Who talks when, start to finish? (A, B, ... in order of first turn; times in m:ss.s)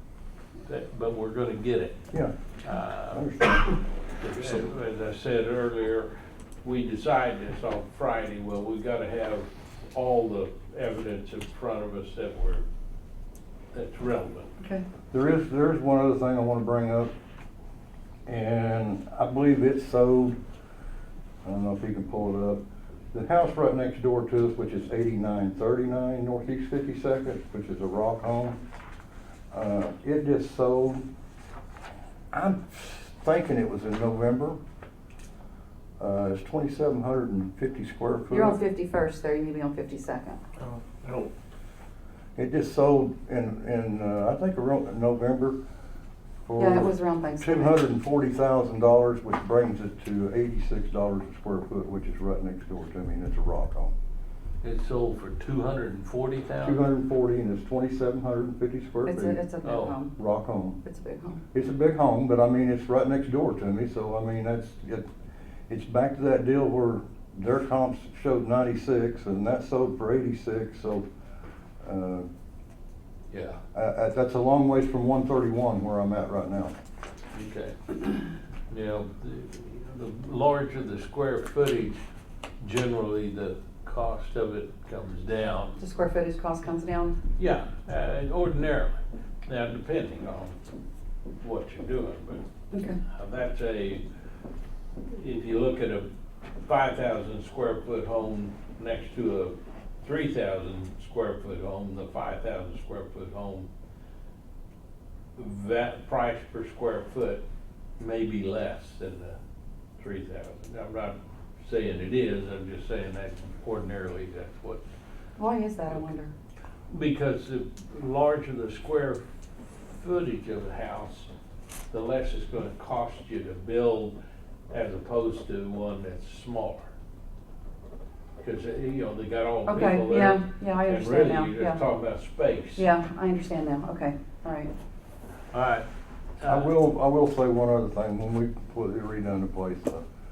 0:00.6-0:02.0 A
0:02.6-0:03.3 A
0:03.1-0:03.8 B
0:04.2-0:06.1 A
0:06.6-0:12.6 A
0:13.7-0:14.5 A
0:14.6-0:14.8 C
0:15.1-0:17.1 B
0:18.3-0:20.4 B
0:21.4-0:22.6 B
0:23.1-0:28.6 B
0:29.5-0:31.0 B
0:32.3-0:34.6 B
0:36.0-0:38.6 B
0:38.3-0:40.4 C
0:42.4-0:45.6 B
0:46.5-0:53.9 B
0:46.6-0:47.8 C
0:54.6-0:56.8 A
0:56.6-0:59.4 B
0:59.0-1:01.4 C
0:59.6-1:00.0 A
1:00.2-1:00.8 B
1:01.5-1:05.1 B
1:05.7-1:11.0 B
1:11.8-1:12.3 B
1:13.3-1:13.6 A
1:13.7-1:16.7 B
1:17.3-1:18.2 A
1:18.7-1:22.0 A
1:22.6-1:25.8 A
1:25.8-1:27.2 C
1:27.4-1:30.6 A
1:31.4-1:32.4 A
1:32.7-1:33.0 C
1:33.1-1:34.0 A
1:35.1-1:36.1 A
1:36.6-1:43.7 A
1:45.4-1:47.4 A
1:48.0-1:49.4 A
1:50.0-1:54.8 A
1:55.4-1:56.3 C
1:56.9-2:01.3 A
2:01.9-2:04.2 A
2:04.7-2:06.8 A
2:08.4-2:12.9 A
2:09.7-2:11.8 C
2:12.8-2:14.7 C
2:15.5-2:15.8 A
2:16.4-2:16.7 A
2:16.4-2:20.0 B